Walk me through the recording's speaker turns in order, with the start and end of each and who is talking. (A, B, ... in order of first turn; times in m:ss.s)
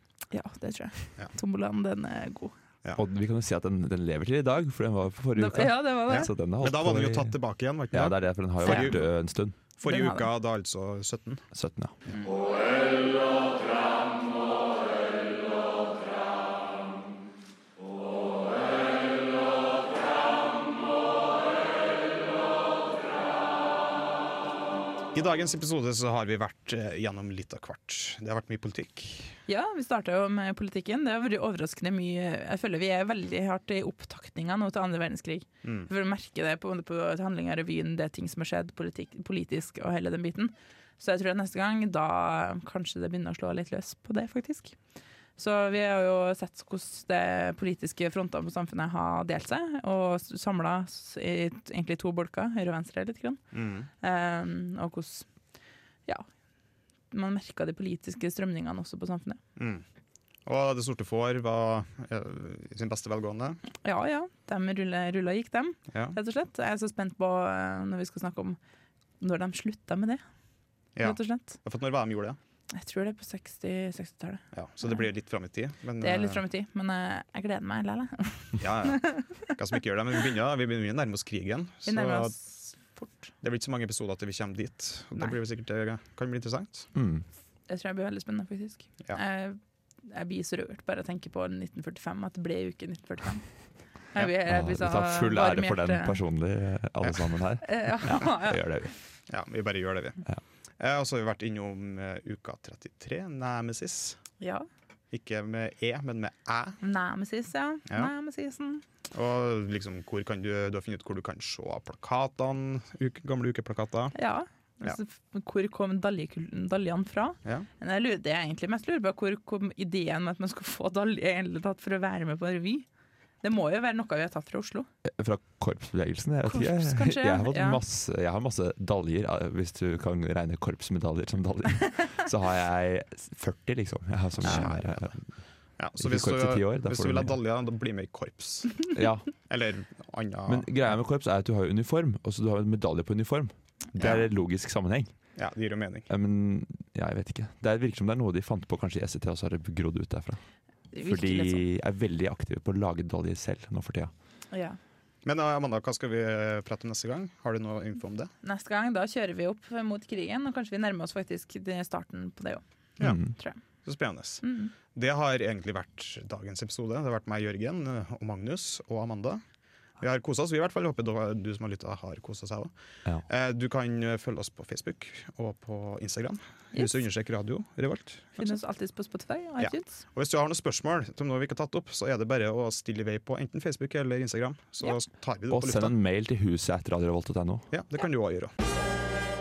0:00.3-0:02.6 A
0:03.0-0:09.6 B
0:05.4-0:06.3 A
0:06.1-0:11.5 C
0:08.6-0:09.2 A
0:09.8-0:10.3 A
0:11.5-0:11.9 B
0:25.1-0:29.4 C
0:29.5-0:59.4 A
0:35.6-0:35.9 C
0:53.5-0:53.9 C
0:59.6-0:59.8 C
1:00.4-1:03.6 C
1:03.8-1:08.6 A
1:05.9-1:06.2 C
1:09.2-1:10.2 A
1:10.8-1:11.6 A
1:10.9-1:12.4 C
1:12.7-1:15.0 A
1:14.5-1:16.4 C
1:16.0-1:19.4 A
1:18.6-1:22.4 C
1:21.8-1:23.3 A
1:23.4-1:26.9 C
1:26.9-1:27.2 B
1:27.6-1:36.2 A
1:34.4-1:39.0 B
1:37.6-1:38.6 A
1:39.3-1:44.2 C
1:44.4-1:44.6 A
1:45.1-1:46.8 C
1:46.8-1:48.8 A
1:47.9-1:48.1 C
1:49.1-1:54.2 C
1:54.1-2:02.9 A
2:03.4-2:04.9 A
2:05.0-2:17.4 B
2:06.4-2:07.8 A
2:14.4-2:21.0 C
2:18.9-2:19.5 B
2:20.4-2:25.5 B
2:24.0-2:24.3 C
2:25.3-2:26.1 C
2:26.1-2:34.2 B
2:30.9-2:31.6 A
2:34.5-2:34.8 A
2:35.2-2:38.3 C
2:38.4-2:43.8 A
2:43.0-2:49.4 C
2:43.0-2:43.3 B
2:44.4-2:44.7 A
2:50.0-2:58.6 C
2:56.7-2:57.0 A
2:58.4-3:00.0 A
2:59.6-3:05.9 C
3:05.4-3:07.7 B
3:07.7-3:08.5 C